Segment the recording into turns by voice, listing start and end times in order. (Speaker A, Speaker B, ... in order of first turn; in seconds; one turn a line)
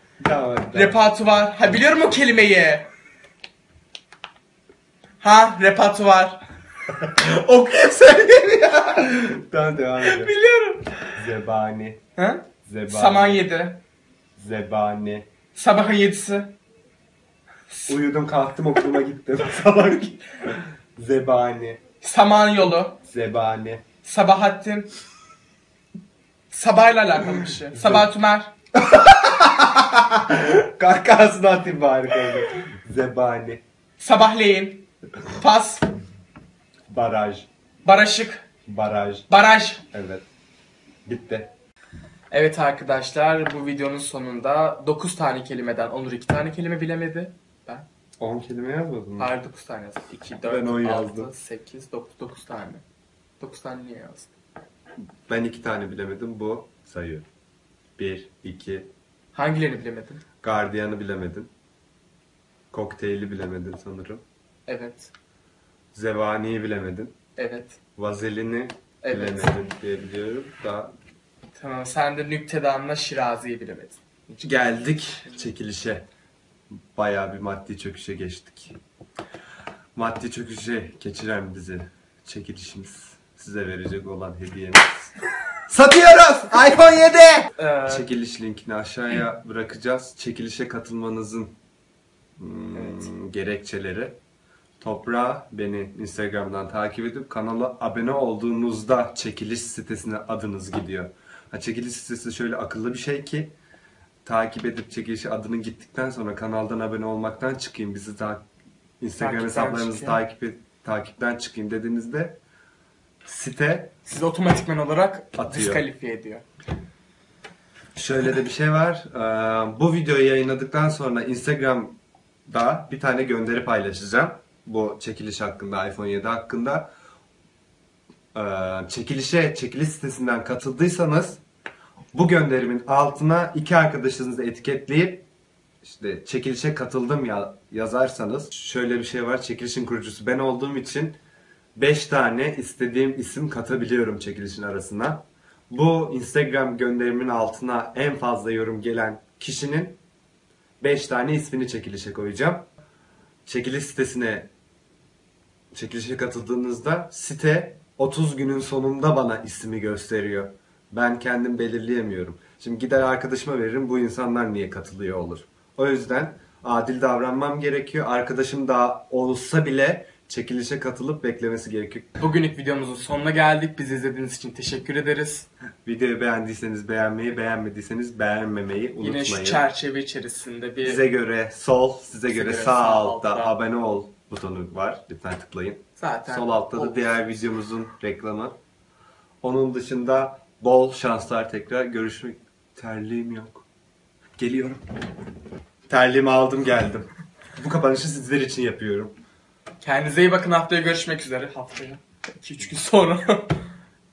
Speaker A: 0.2-1.1
Speaker B: 0.7-2.9
Speaker A: 1.6-2.1
Speaker B: 5.2-6.4
Speaker A: 6.9-10.3
Speaker B: 7.1-7.7
Speaker B: 10.0-11.2
Speaker A: 11.1-12.0
Speaker B: 12.2-13.8
Speaker A: 12.6-13.4
Speaker A: 14.4-15.3
Speaker B: 15.5-16.5
Speaker B: 17.7-18.0
Speaker A: 17.9-21.8
Speaker B: 22.0-23.0
Speaker A: 23.0-23.8
Speaker B: 24.0-24.9
Speaker B: 26.5-28.5
Speaker A: 27.7-28.1
Speaker A: 28.7-33.6
Speaker B: 34.0-35.9
Speaker A: 36.9-37.5
Speaker B: 37.8-38.5
Speaker A: 38.7-39.3
Speaker B: 39.3-39.8
Speaker A: 39.9-40.2
Speaker A: 41.0-41.5
Speaker B: 42.3-47.9
Speaker A: 48.2-49.3
Speaker B: 49.2-52.8
Speaker A: 50.4-51.3
Speaker B: 53.4-54.3
Speaker A: 55.3-57.2
Speaker A: 58.0-58.9
Speaker B: 59.3-60.2
Speaker A: 60.4-61.5
Speaker A: 62.7-64.2
Speaker B: 64.7-65.1
Speaker A: 65.9-67.1
Speaker B: 67.3-67.8
Speaker A: 68.0-70.9
Speaker B: 69.0-69.6
Speaker B: 71.5-74.0
Speaker A: 74.3-76.0
Speaker A: 76.9-78.8
Speaker A: 79.9-85.1
Speaker A: 85.7-91.5
Speaker B: 87.6-88.1
Speaker A: 92.4-94.2
Speaker A: 94.8-103.5
Speaker A: 104.2-108.4
Speaker A: 109.0-112.4
Speaker B: 109.2-110.2
Speaker A: 113.2-113.9
Speaker B: 114.0-116.5
Speaker A: 115.3-115.8
Speaker A: 117.9-126.9
Speaker A: 128.3-131.4
Speaker A: 132.1-135.2
Speaker A: 135.8-141.2
Speaker A: 141.8-150.0
Speaker A: 150.8-152.7
Speaker A: 153.4-154.5
Speaker A: 155.7-172.1
Speaker B: 172.2-175.5
Speaker A: 175.8-179.6
Speaker B: 179.0-181.0
Speaker A: 180.8-188.6
Speaker B: 182.3-183.5
Speaker B: 186.0-187.3
Speaker A: 189.4-193.7
Speaker A: 194.4-194.8
Speaker A: 195.9-199.1
Speaker B: 199.8-203.6